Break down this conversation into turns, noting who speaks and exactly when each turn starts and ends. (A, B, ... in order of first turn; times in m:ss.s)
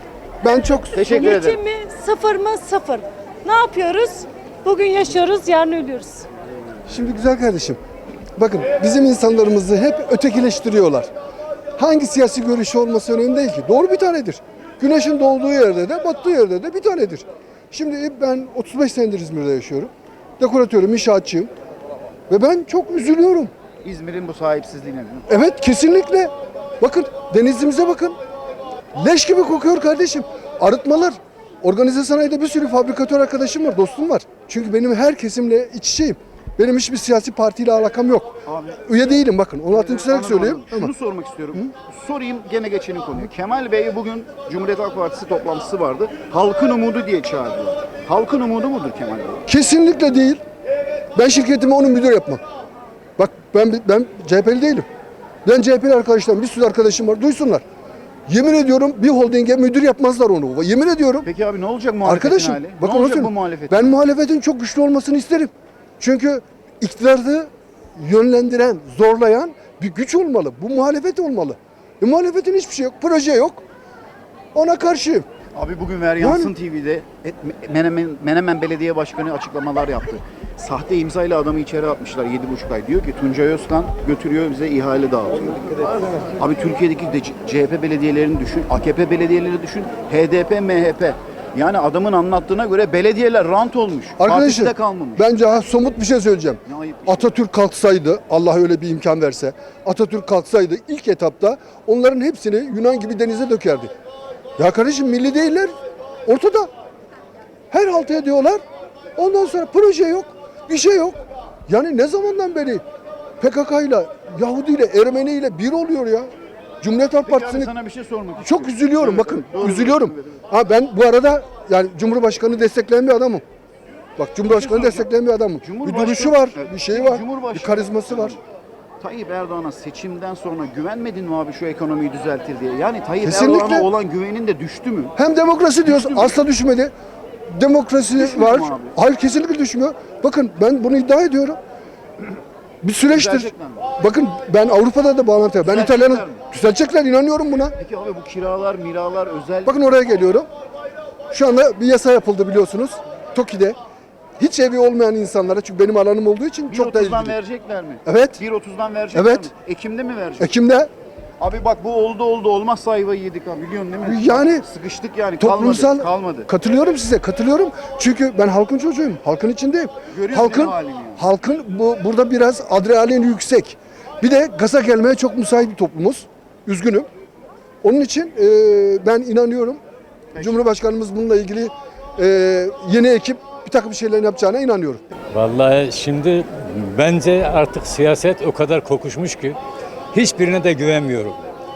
0:00.4-0:01.1 A
0:00.9-0:01.6 B
0:01.0-0:06.3 C
0:06.9-0:07.8 A
0:08.4-0:11.1 A
0:11.8-0:21.5 A
0:22.3-0:23.5 A
0:23.8-0:25.4 B
0:25.3-0:28.2 A
0:29.0-0:40.9 A
0:38.5-0:39.0 B
0:39.7-0:49.4 B
0:49.5-0:50.4 A
0:51.2-0:52.4 A
0:53.2-0:54.9 A
0:55.4-0:57.6 A
0:58.3-1:01.3 A
1:01.2-1:03.9 B
1:02.0-1:13.6 A
1:14.6-1:15.3 A
1:15.6-1:25.8 B
1:16.2-1:16.5 A
1:26.4-1:35.3 B
1:34.2-1:43.9 A
1:36.7-1:37.4 B
1:44.6-1:45.7 A
1:46.3-1:46.7 A
1:47.7-1:48.6 A
1:49.2-1:52.8 A
1:53.4-1:56.3 A
1:56.8-1:57.7 A
1:57.2-2:00.4 B
1:58.4-2:03.4 A
2:04.2-2:08.4 A
2:04.5-2:05.1 B
2:05.6-2:08.4 B
2:09.0-2:15.2 B
2:13.2-2:13.9 A
2:15.2-2:16.9 A
2:15.9-2:16.4 B
2:17.5-2:21.6 A
2:18.2-2:19.0 B
2:22.8-2:27.8 A
2:23.1-2:23.9 B
2:25.6-2:26.4 B
2:27.8-2:29.8 B
2:29.7-2:30.5 A
2:31.3-2:33.8 A
2:34.4-2:37.4 A
2:36.7-2:40.5 B
2:38.0-2:38.4 A
2:39.1-2:39.5 A
2:40.4-2:40.9 A
2:41.4-2:46.5 B
2:44.0-2:44.6 A
2:45.4-2:57.1 A
2:50.1-2:51.2 B
2:57.8-2:59.8 A
3:00.3-3:00.6 B
3:00.4-3:05.0 A
3:05.3-3:09.6 D
3:10.1-3:11.4 D